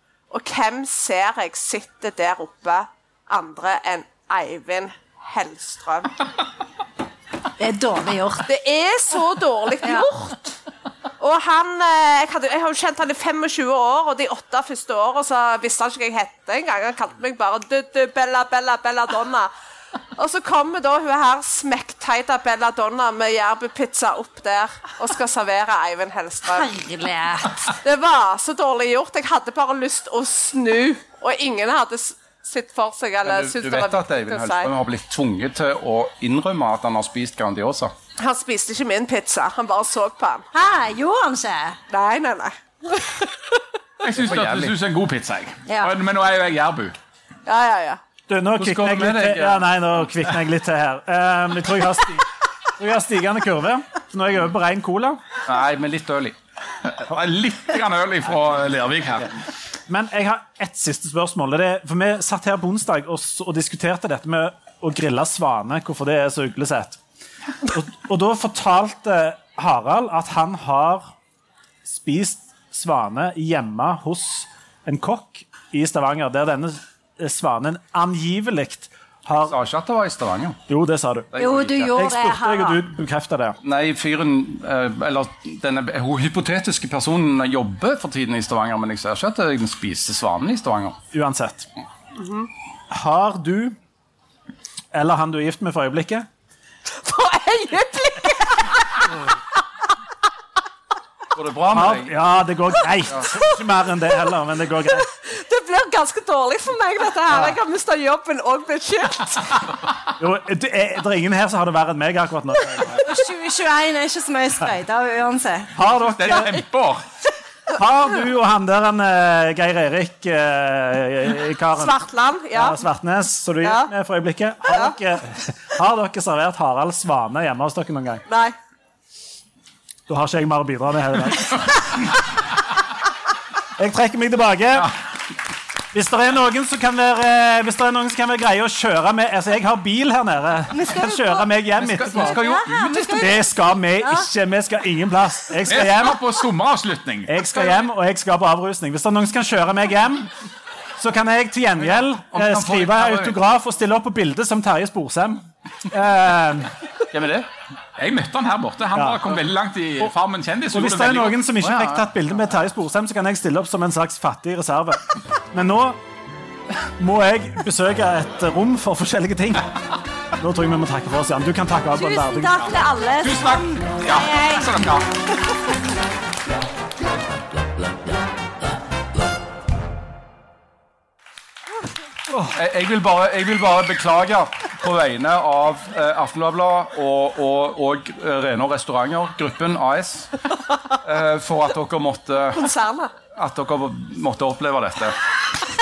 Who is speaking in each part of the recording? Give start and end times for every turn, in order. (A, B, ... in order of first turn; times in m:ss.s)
0:00.3-0:06.1 A
0:07.6-0:08.5 B
0:08.5-0:10.6 A
0:11.2-0:19.5 A
0:20.2-0:26.7 A
0:26.5-0:27.8 B
0:27.7-0:34.7 A
0:33.2-0:37.9 C
0:38.2-0:40.4 A
0:40.5-0:41.8 B
0:41.9-0:43.6 A
0:44.0-0:46.9 D
0:44.2-0:44.7 C
0:45.7-0:45.9 B
0:47.4-0:48.0 A
0:48.3-0:55.2 E
0:48.6-0:49.6 C
0:55.4-0:56.4 C
0:56.8-0:59.3 D
0:59.9-1:07.0 E
1:07.6-1:11.1 E
1:11.8-1:19.6 E
1:19.5-1:20.6 C
1:20.7-1:21.3 E
1:21.3-1:21.9 C
1:21.4-1:22.8 B
1:21.9-1:23.6 E
1:23.6-1:31.0 C
1:31.1-1:31.7 E
1:32.2-1:32.5 A
1:32.9-1:33.8 E
1:34.9-1:36.3 E
1:36.9-1:39.2 A
1:41.3-1:42.1 C
1:41.7-1:45.1 E
1:43.3-1:43.5 A
1:44.9-1:49.7 A
1:47.3-1:47.6 E
1:50.2-1:53.0 E
1:52.9-1:55.8 B
1:55.7-1:56.6 E
1:56.2-1:57.0 D
1:57.7-2:02.0 E
2:01.7-2:02.8 A
2:02.5-2:08.2 E
2:03.6-2:03.9 A
2:08.3-2:08.5 A
2:10.1-2:12.2 E
2:13.8-2:15.0 E
2:15.9-2:22.4 E
2:20.7-2:21.5 B
2:21.8-2:23.4 C
2:22.1-2:23.5 B
2:23.1-2:26.2 E
2:24.0-2:24.2 B
2:25.6-2:27.4 D
2:27.3-2:30.3 E
2:31.0-2:36.7 E
2:32.3-2:33.4 C
2:37.1-2:37.5 C
2:38.0-2:41.5 D
2:38.9-2:39.3 E
2:40.7-2:46.0 E
2:41.6-2:42.0 C
2:47.0-2:49.8 E
2:50.4-2:52.7 E
2:51.9-2:54.7 B
2:53.2-2:55.1 D
3:02.5-3:10.3 C
3:11.0-3:12.6 C
3:12.5-3:13.1 A
3:13.3-3:15.1 C